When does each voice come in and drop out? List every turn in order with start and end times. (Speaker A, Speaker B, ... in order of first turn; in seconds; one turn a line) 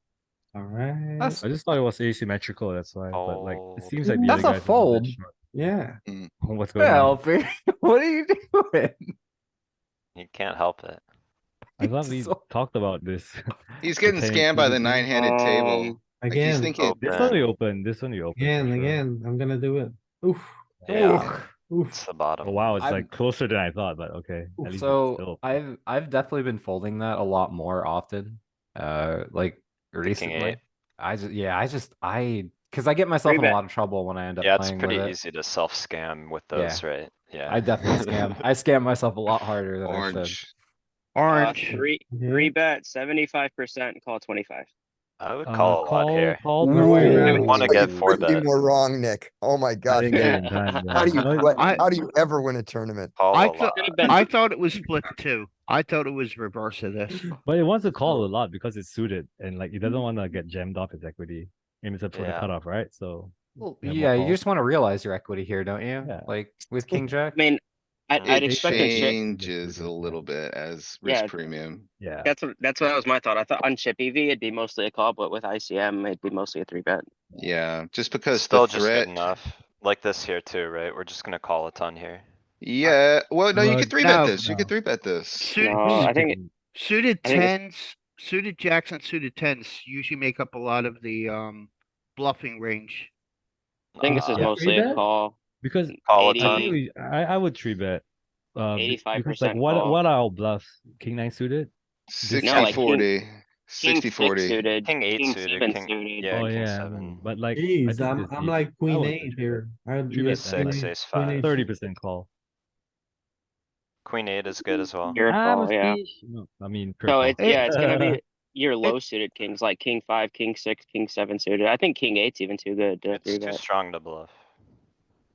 Speaker A: 0.6-1.4
Speaker B: 1.2-1.4
Speaker C: 1.4-5.3
Speaker D: 3.1-4.0
Speaker B: 4.0-5.2
Speaker A: 5.5-6.0
Speaker E: 6.1-6.3
Speaker C: 6.4-7.2
Speaker B: 6.8-9.1
Speaker D: 10.2-11.0
Speaker C: 11.8-13.4
Speaker B: 11.8-12.4
Speaker E: 13.8-17.4
Speaker C: 14.0-15.0
Speaker A: 14.7-15.1
Speaker F: 15.1-16.0
Speaker A: 16.1-16.8
Speaker F: 16.8-17.1
Speaker D: 16.8-17.4
Speaker C: 17.0-19.0
Speaker A: 18.4-22.0
Speaker D: 20.8-21.4
Speaker B: 20.9-21.5
Speaker D: 21.9-22.6
Speaker C: 22.4-25.6
Speaker B: 22.8-23.1
Speaker B: 24.6-35.2
Speaker D: 30.0-30.6
Speaker F: 33.2-33.6
Speaker D: 34.4-38.2
Speaker B: 36.5-36.9
Speaker B: 37.5-40.4
Speaker E: 39.9-40.5
Speaker G: 41.2-41.8
Speaker F: 41.3-44.7
Speaker A: 42.0-42.5
Speaker D: 45.2-46.4
Speaker C: 45.5-47.6
Speaker A: 46.6-47.8
Speaker H: 47.0-50.4
Speaker D: 47.0-48.7
Speaker C: 49.9-51.7
Speaker F: 50.1-51.5
Speaker H: 51.0-53.2
Speaker G: 51.5-51.9
Speaker D: 53.2-54.2
Speaker G: 53.3-57.2
Speaker F: 53.8-54.2
Speaker C: 57.4-64.4
Speaker D: 62.1-62.5
Speaker B: 63.6-67.4
Speaker C: 66.0-66.3
Speaker F: 67.3-69.2
Speaker D: 68.2-68.5
Speaker C: 68.3-70.2
Speaker E: 68.7-71.9
Speaker F: 71.0-71.4
Speaker C: 72.0-72.3
Speaker F: 72.2-77.0
Speaker E: 77.4-79.3
Speaker D: 78.3-82.2
Speaker E: 82.6-86.0
Speaker C: 83.5-84.7
Speaker G: 84.0-84.7
Speaker G: 85.4-86.0
Speaker F: 85.6-86.4
Speaker C: 85.8-86.5
Speaker G: 86.7-93.1
Speaker F: 87.2-87.5
Speaker D: 94.0-94.4
Speaker F: 94.0-95.4
Speaker A: 94.1-95.0
Speaker C: 95.6-98.0
Speaker D: 96.1-96.8
Speaker F: 96.1-96.8
Speaker C: 98.5-101.7
Speaker F: 98.8-100.0
Speaker E: 102.1-104.6
Speaker C: 102.2-102.8
Speaker F: 102.4-103.1
Speaker F: 103.8-106.3
Speaker D: 104.8-107.2
Speaker C: 106.3-110.9
Speaker A: 107.5-111.6
Speaker D: 110.3-111.6
Speaker C: 111.4-112.3
Speaker D: 114.0-115.2
Speaker F: 114.7-116.0
Speaker C: 115.3-118.2
Speaker F: 117.1-123.6
Speaker G: 117.4-117.7
Speaker D: 123.1-124.3